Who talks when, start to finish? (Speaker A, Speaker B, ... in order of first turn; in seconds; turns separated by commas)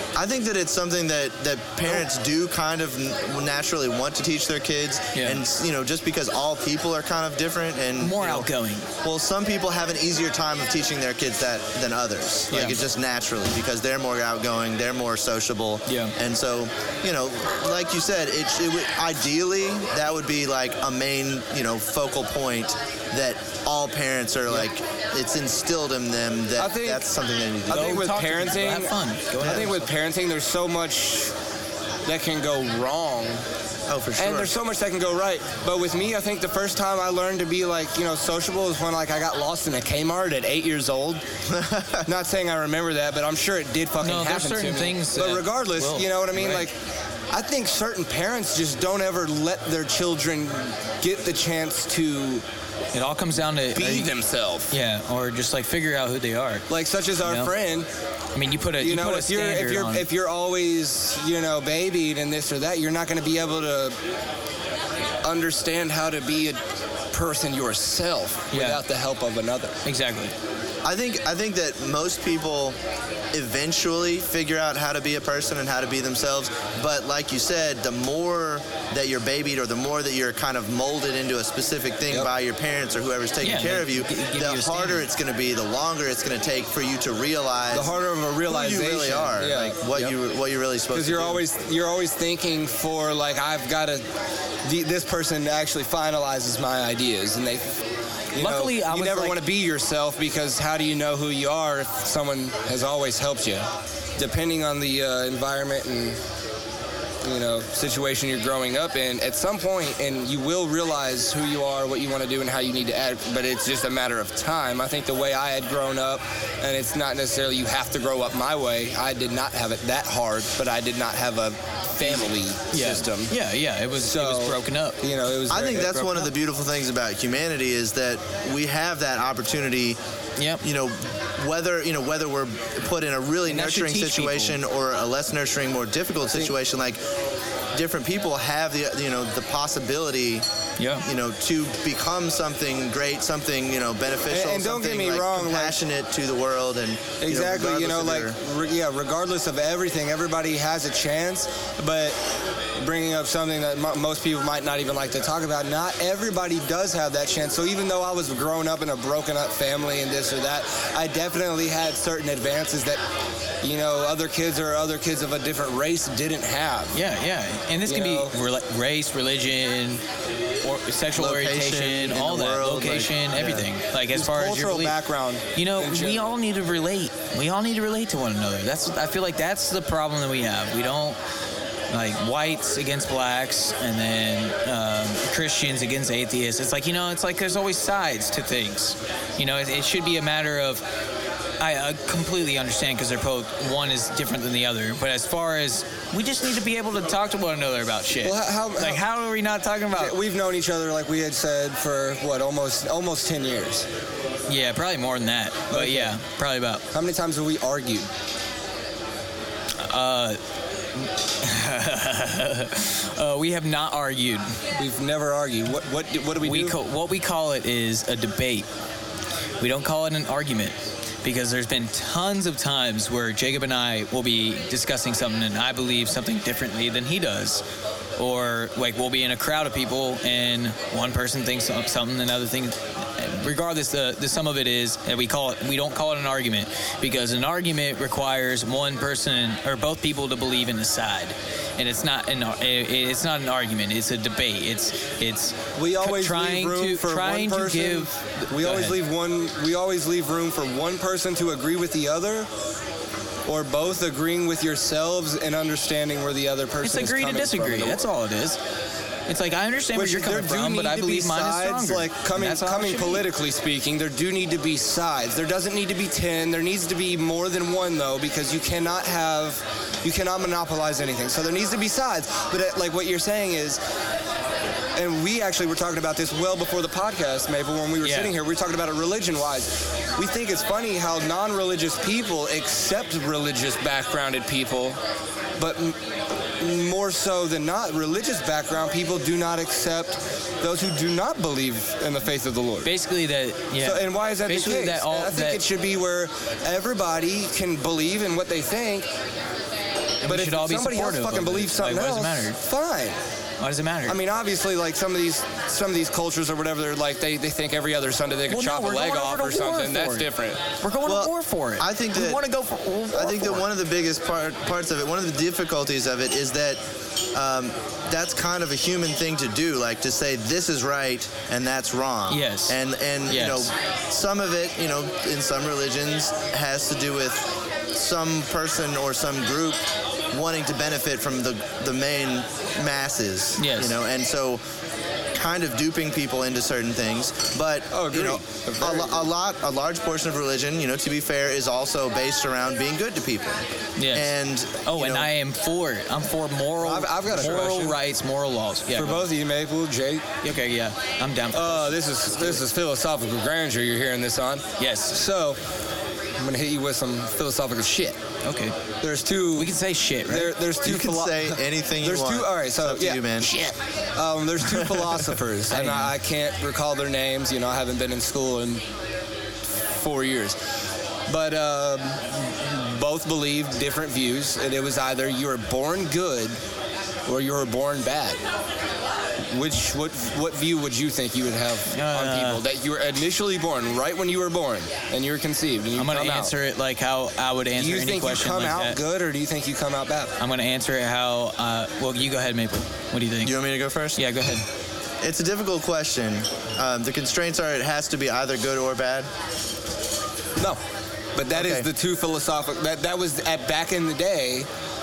Speaker A: 0.1-8.5, Speaker B: 5.1-5.4, Speaker B: 8.0-8.9, Speaker A: 9.0-28.0, Speaker B: 12.5-12.8, Speaker B: 15.9-16.1, Speaker C: 26.6-27.1, Speaker C: 27.7-31.3, Speaker B: 27.7-29.9, Speaker A: 29.4-29.7, Speaker C: 32.0-33.4, Speaker A: 33.9-34.5, Speaker C: 34.2-41.2, Speaker A: 41.5-42.1, Speaker C: 42.0-46.7, Speaker B: 44.0-46.7, Speaker C: 47.3-52.4, Speaker B: 52.9-54.1, Speaker C: 53.7-54.7, Speaker B: 54.7-56.6, Speaker C: 56.7-57.9, Speaker B: 57.2-57.5, Speaker B: 58.3-60.0, Speaker C: 58.8-64.0, Speaker C: 65.2-66.6, Speaker C: 67.1-69.8, Speaker B: 68.5-68.8, Speaker B: 69.8-70.3, Speaker A: 70.8-72.8, Speaker A: 73.3-91.4, Speaker B: 83.4-85.0, Speaker C: 87.7-90.1, Speaker C: 90.9-94.0, Speaker C: 94.6-97.7, Speaker C: 98.3-103.7, Speaker B: 98.3-99.4, Speaker C: 104.2-106.2, Speaker C: 107.2-123.3, Speaker B: 122.0-125.0, Speaker C: 124.0-126.2, Speaker A: 125.5-130.0, Speaker B: 130.4-130.6, Speaker A: 130.6-137.0, Speaker B: 133.5-134.6, Speaker A: 137.7-140.4, Speaker B: 140.8-141.1, Speaker A: 141.0-148.3, Speaker C: 144.3-145.8, Speaker C: 147.2-152.2, Speaker C: 152.8-163.0, Speaker C: 163.6-166.9, Speaker B: 166.9-170.0, Speaker C: 167.9-168.3, Speaker B: 170.6-175.0, Speaker A: 171.1-173.7, Speaker C: 174.1-176.3, Speaker B: 175.5-181.2, Speaker B: 181.9-190.8, Speaker B: 191.6-200.2, Speaker C: 198.2-199.0, Speaker C: 199.9-203.8, Speaker B: 204.5-206.8, Speaker C: 205.7-206.2, Speaker C: 206.9-208.1, Speaker B: 209.8-210.4, Speaker B: 210.9-214.6, Speaker C: 214.8-216.8, Speaker B: 216.4-218.7, Speaker B: 219.6-227.6, Speaker B: 228.2-249.0, Speaker C: 245.8-252.5, Speaker C: 253.4-258.1, Speaker B: 256.8-258.6, Speaker B: 259.3-263.3, Speaker C: 259.9-273.8, Speaker C: 274.9-285.0, Speaker B: 278.0-278.3, Speaker C: 285.6-286.0, Speaker C: 286.6-292.9, Speaker B: 292.8-295.6, Speaker C: 293.8-299.1, Speaker B: 300.2-302.6, Speaker C: 300.2-303.2, Speaker B: 303.6-304.2, Speaker C: 304.1-310.6, Speaker B: 308.5-310.3, Speaker B: 310.8-313.6, Speaker A: 311.0-312.4, Speaker A: 313.1-316.8, Speaker A: 317.3-329.8, Speaker B: 322.3-323.7, Speaker A: 330.3-334.6, Speaker B: 333.6-334.0, Speaker A: 335.3-345.3, Speaker C: 337.9-339.3, Speaker B: 344.0-344.3, Speaker B: 344.8-349.2, Speaker C: 346.8-348.0, Speaker C: 348.9-350.2, Speaker B: 350.4-352.6, Speaker C: 351.5-355.6, Speaker B: 354.8-355.1, Speaker C: 356.4-358.2, Speaker B: 358.4-358.8, Speaker C: 359.0-359.7, Speaker B: 359.5-360.5, Speaker C: 360.3-368.8, Speaker A: 360.8-363.5, Speaker A: 364.6-365.2, Speaker B: 365.7-366.1, Speaker C: 369.9-370.6, Speaker C: 371.3-376.6, Speaker C: 377.2-378.4, Speaker C: 379.5-386.5, Speaker B: 381.9-382.6, Speaker B: 385.9-389.0, Speaker C: 387.8-390.3, Speaker B: 390.4-393.5, Speaker A: 393.4-394.2, Speaker B: 394.2-394.6, Speaker A: 395.2-399.3, Speaker C: 401.4-404.7, Speaker A: 401.5-401.9